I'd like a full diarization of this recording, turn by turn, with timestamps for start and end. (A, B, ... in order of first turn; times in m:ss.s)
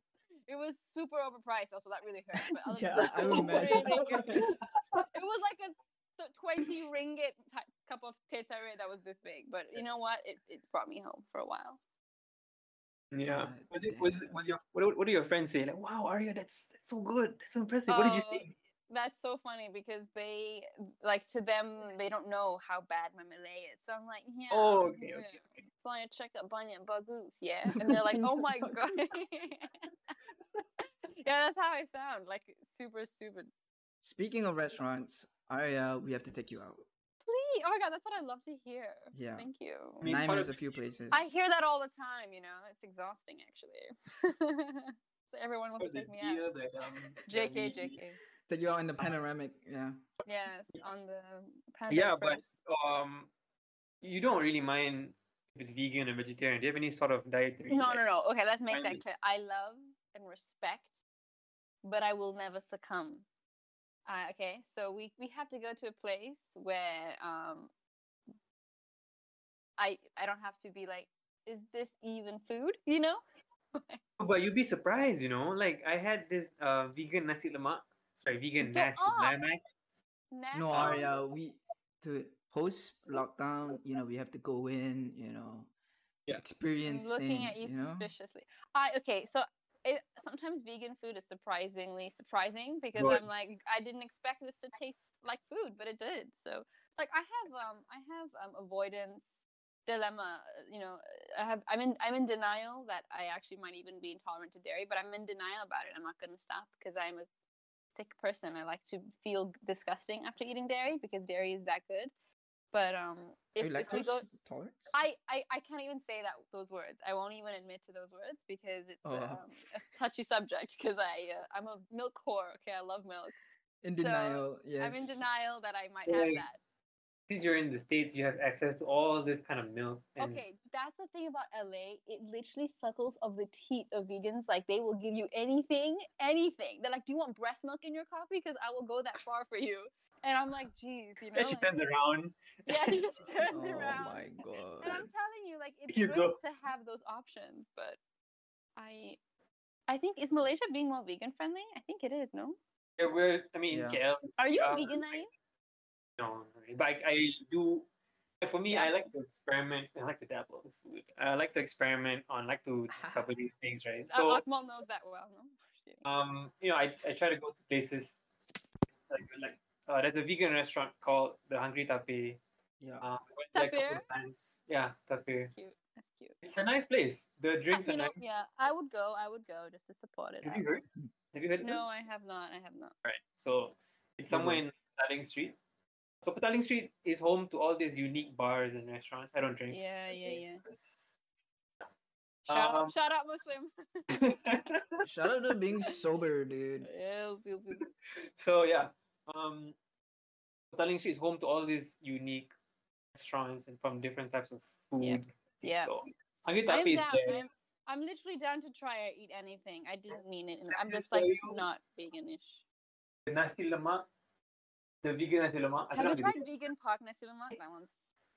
0:00.5-0:04.6 A
0:02.4-0:04.5 B
0:03.0-0:05.0 C
0:05.1-0:11.8 A
0:13.1-0:18.5 C
0:13.3-0:14.4 B
0:17.9-0:29.7 A
0:24.5-0:25.5 C
0:27.7-0:28.8 B
0:30.8-0:33.5 A
0:34.0-0:36.9 B
0:37.2-0:40.0 A
0:39.1-0:39.5 B
0:40.0-0:40.7 C
0:40.0-0:41.2 B
0:41.1-0:46.4 A
0:45.8-0:47.9 C
0:47.3-0:48.2 A
0:48.5-0:50.0 B
0:50.2-0:52.5 A
0:51.9-0:53.3 C
0:54.0-0:58.0 C
0:57.7-1:01.0 A
0:58.7-0:59.0 C
1:01.8-1:03.2 A
1:04.0-1:07.7 A
1:09.8-1:13.2 A
1:13.7-1:14.0 A
1:14.2-1:19.6 C
1:18.6-1:19.4 A
1:20.3-1:21.1 A
1:20.5-1:25.7 B
1:20.7-1:21.0 C
1:26.3-1:28.1 B
1:26.8-1:47.3 A
1:33.0-1:33.2 C
1:47.9-1:52.1 A
1:52.7-1:54.3 A
1:53.6-1:54.9 B
1:54.9-2:03.4 A
1:59.0-1:59.4 B
2:03.8-2:05.2 B
2:04.0-2:06.6 A
2:06.1-2:06.4 C
2:07.3-2:10.4 C
2:10.2-2:21.7 A
2:21.3-2:23.2 C
2:22.6-2:28.0 A
2:23.4-2:25.1 B
2:25.9-2:26.4 C
2:28.8-2:29.2 A
2:29.9-2:32.6 A
2:33.0-2:35.1 C
2:33.7-2:34.0 B
2:34.4-2:35.3 A
2:36.2-2:37.9 C
2:38.4-2:44.4 C
2:38.7-2:39.1 A
2:42.9-2:43.3 B
2:44.1-2:46.0 A
2:46.0-2:48.3 C
2:49.1-2:52.4 C
2:52.8-2:53.0 B
2:53.0-2:55.5 C
2:53.5-2:54.1 A
2:55.4-2:56.4 A
2:56.4-2:58.3 C
2:57.7-3:00.7 A
3:00.4-3:01.8 C
3:01.6-3:02.9 A
3:03.0-3:05.6 C
3:04.3-3:04.6 B
3:06.2-3:11.2 C
3:09.7-3:10.6 A
3:12.4-3:12.9 C
3:12.5-3:14.4 A
3:14.2-3:15.0 C
3:15.0-3:16.9 B
3:16.8-3:17.8 A
3:18.4-3:19.7 C
3:20.7-3:22.5 C
3:23.1-3:27.4 C
3:25.0-3:25.9 A
3:26.7-3:32.6 A
3:30.7-3:31.6 C
3:33.2-3:34.1 C
3:35.0-3:36.4 C
3:35.9-3:38.1 A